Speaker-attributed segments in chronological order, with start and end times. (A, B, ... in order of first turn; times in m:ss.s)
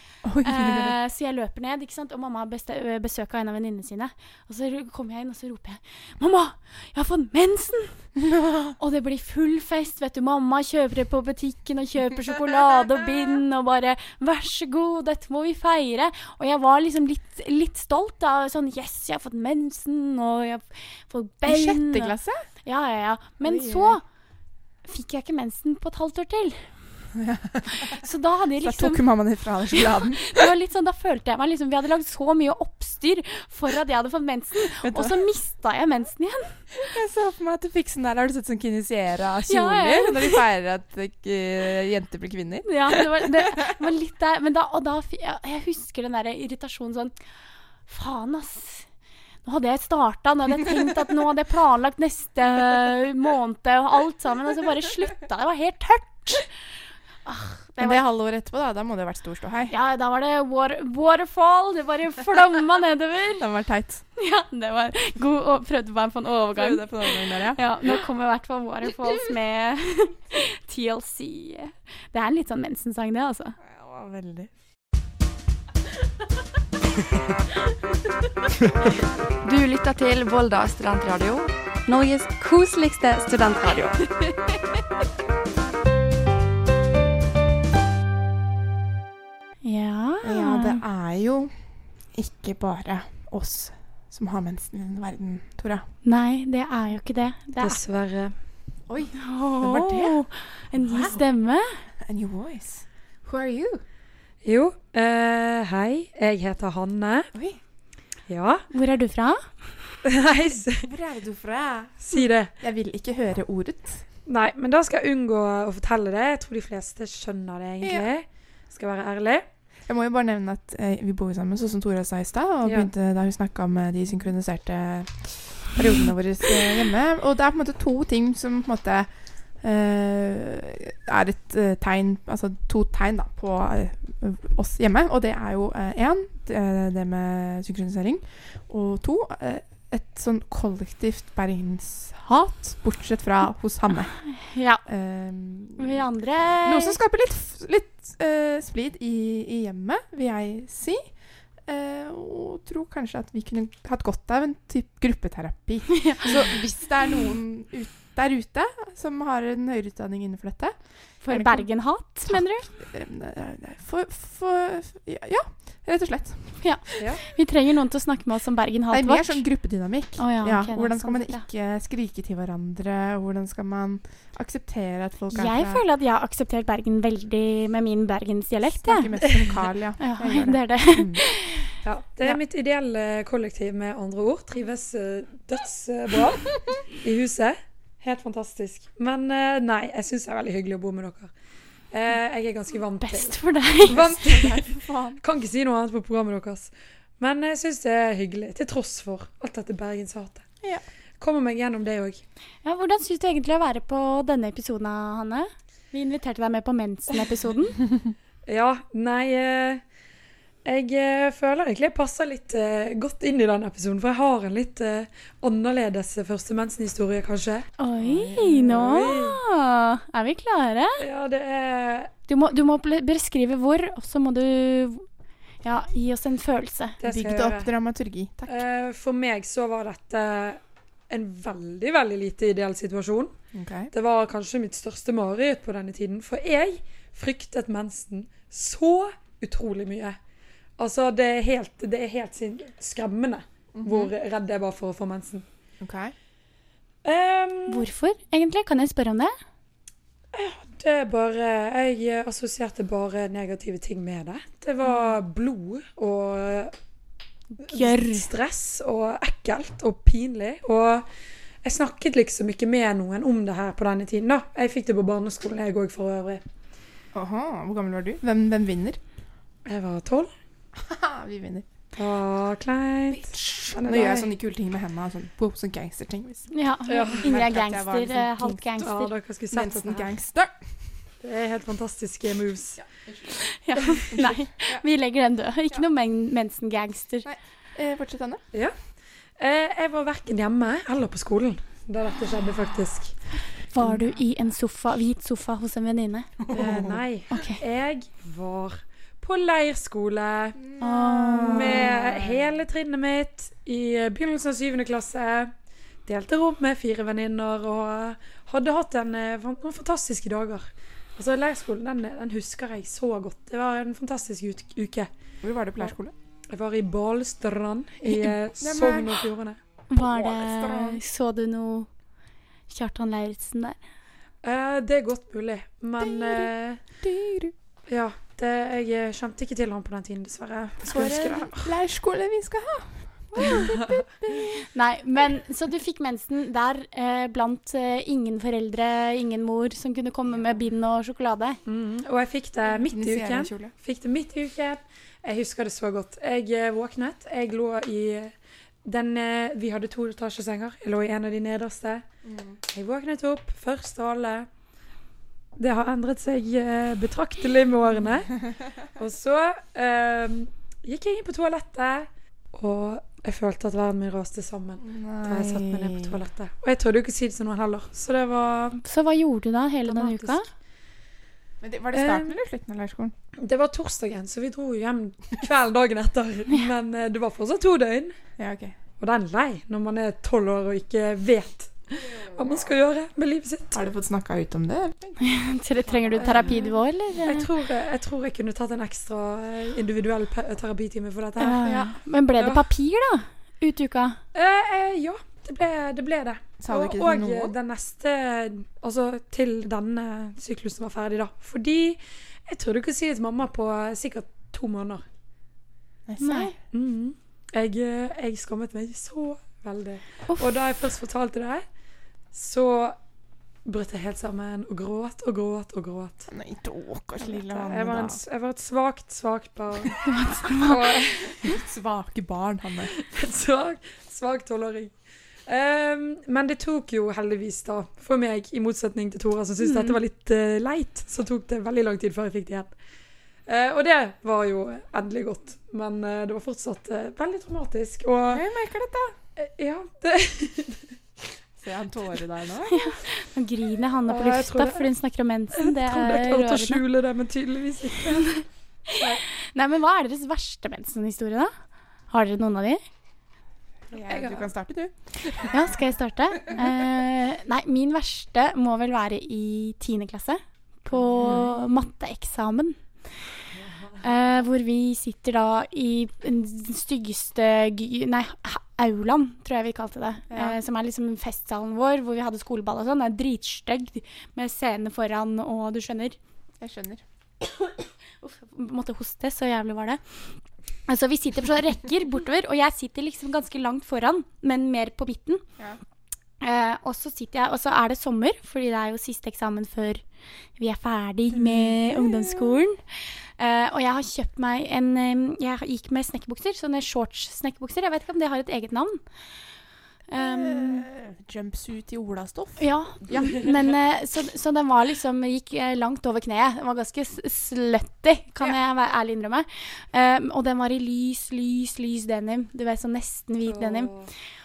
0:00.2-0:01.0 A
0:00.4-0:08.0 B
0:08.2-0:08.8 A
0:08.8-0:24.0 B
0:21.4-0:22.4 A
0:23.4-0:24.0 A
0:24.9-0:26.7 B
0:27.2-0:28.0 A
0:27.7-0:29.1 B
0:28.6-0:30.4 A
0:29.7-0:36.6 B
0:34.8-0:35.2 A
0:36.7-0:43.7 A
0:39.5-0:40.4 B
0:42.6-0:47.1 B
0:47.9-0:48.9 B
0:49.4-0:56.5 B
0:57.3-0:58.0 B
0:57.8-0:59.7 A
0:59.7-1:03.4 B
1:03.4-1:04.0 A
1:04.2-1:13.6 B
1:06.5-1:07.6 A
1:13.6-1:14.5 A
1:19.4-1:24.0 C
1:29.6-1:30.8 B
1:30.2-1:31.5 A
1:32.2-1:35.8 A
1:36.0-1:37.8 B
1:37.6-1:38.3 D
1:38.9-1:40.2 A
1:39.2-1:41.8 B
1:40.8-1:41.2 A
1:42.0-1:43.8 A
1:44.4-1:47.3 D
1:47.3-1:47.6 A
1:48.3-1:48.7 D
1:48.7-1:49.5 B
1:50.0-1:50.9 D
1:50.8-1:54.0 A
1:52.0-1:52.5 D
1:54.3-1:59.5 D
1:57.8-1:58.1 A
1:59.9-2:09.1 A
2:02.6-2:02.9 D
2:09.6-2:24.2 A
2:24.4-2:24.8 B
2:24.9-2:26.0 A
2:25.8-2:27.0 B
2:26.6-2:31.1 A
2:31.7-2:40.8 A
2:35.9-2:36.3 B
2:41.2-2:42.7 B
2:41.3-2:41.7 A
2:42.3-2:47.0 A
2:46.6-2:49.4 B
2:48.9-2:55.8 A
2:50.2-2:51.4 B
2:55.3-2:59.2 B
2:58.7-3:01.2 A
3:00.0-3:01.7 B
3:01.8-3:11.3 D
3:11.9-3:20.4 D
3:13.0-3:14.1 B
3:13.9-3:15.2 A
3:21.2-3:22.2 D
3:22.6-3:27.8 B
3:28.5-3:29.8 D
3:30.6-3:37.7 D
3:37.8-3:41.0 B
3:38.0-3:39.0 A
3:38.6-3:39.4 D
3:41.0-3:42.1 D
3:42.3-3:45.0 B
3:45.6-3:47.0 B
3:47.0-3:47.7 D
3:47.0-3:48.6 A
3:48.5-3:53.4 D
3:53.5-3:53.9 A
3:53.9-4:00.2 D
4:00.8-4:05.4 D
4:03.8-4:04.1 A
4:05.8-4:06.1 A
4:07.0-4:07.9 D
4:07.7-4:09.3 B
4:10.3-4:16.7 D
4:17.6-4:18.3 B
4:17.6-4:21.1 D
4:21.6-4:26.4 D
4:27.1-4:29.0 A
4:29.6-4:30.3 D
4:30.8-4:31.7 A
4:32.0-4:34.3 D
4:33.1-4:36.5 A
4:36.5-4:39.1 B
4:36.9-4:37.3 D
4:37.1-4:38.6 A
4:38.8-4:40.1 D
4:39.5-4:40.6 A
4:41.2-4:42.8 D
4:42.8-4:43.3 A
4:43.4-4:47.3 B
4:44.1-4:44.8 A
4:47.2-4:48.4 A
4:49.4-4:53.2 D
4:53.7-4:56.5 B
4:53.8-4:54.1 A
4:56.4-4:57.0 A
4:56.5-5:00.6 D
4:57.3-4:57.6 B
5:00.6-5:02.4 A
5:00.8-5:01.9 B
5:01.4-5:05.5 D
5:06.1-5:15.1 D
5:15.4-5:16.1 A
5:16.5-5:19.6 D
5:18.1-5:19.2 A
5:19.9-5:21.9 B
5:20.0-5:21.0 A
5:22.7-5:23.8 B
5:24.4-5:26.8 D
5:26.0-5:26.5 A
5:27.0-5:27.5 A
5:27.9-5:31.7 D
5:30.9-5:34.6 A
5:33.4-5:33.9 D
5:34.6-5:41.6 B
5:41.7-5:48.3 D
5:42.6-5:43.7 A
5:48.8-5:52.0 D
5:52.2-5:52.6 A
5:52.7-5:54.5 D
5:55.6-6:08.8 D
6:04.8-6:06.2 A
6:08.8-6:10.5 B
6:09.9-6:10.4 D
6:11.6-6:13.1 A
6:11.9-6:12.4 D
6:13.4-6:18.2 D
6:18.4-6:18.8 A
6:19.0-6:23.8 D
6:23.7-6:26.7 A
6:25.2-6:27.5 B
6:26.2-6:26.7 D
6:27.2-6:31.7 D
6:31.4-6:34.2 B
6:31.6-6:31.9 A
6:32.4-6:32.7 D
6:34.3-6:45.0 D
6:36.6-6:37.5 A
6:46.1-6:46.6 A
6:46.2-6:46.5 B
6:46.7-6:51.6 D
6:52.3-6:53.0 D
6:53.6-6:56.3 D
6:56.3-6:58.2 A
6:57.2-7:01.6 D
7:00.0-7:01.0 B
7:01.4-7:02.9 A
7:02.8-7:04.9 D
7:05.5-7:12.7 D
7:09.6-7:10.0 B
7:13.5-7:18.5 D
7:18.3-7:19.2 A
7:19.4-7:21.0 D
7:21.6-7:23.0 A
7:22.7-7:26.8 B
7:24.1-7:24.9 D
7:25.5-7:28.3 D
7:28.2-7:31.5 B
7:28.9-7:29.2 D
7:32.1-7:32.8 B
7:33.9-7:35.6 A
7:34.0-7:34.5 D
7:35.5-7:42.8 B
7:41.2-7:41.5 A
7:44.0-7:56.2 B
7:50.3-7:50.6 A
7:56.6-7:57.0 A
7:58.2-8:00.0 B
8:00.9-8:05.4 B
8:06.4-8:10.0 B
8:10.6-8:12.8 B
8:11.3-8:12.6 A
8:13.4-8:19.0 B
8:20.1-8:20.9 B
8:20.2-8:23.4 A
8:22.6-8:33.9 B
8:33.5-8:34.1 D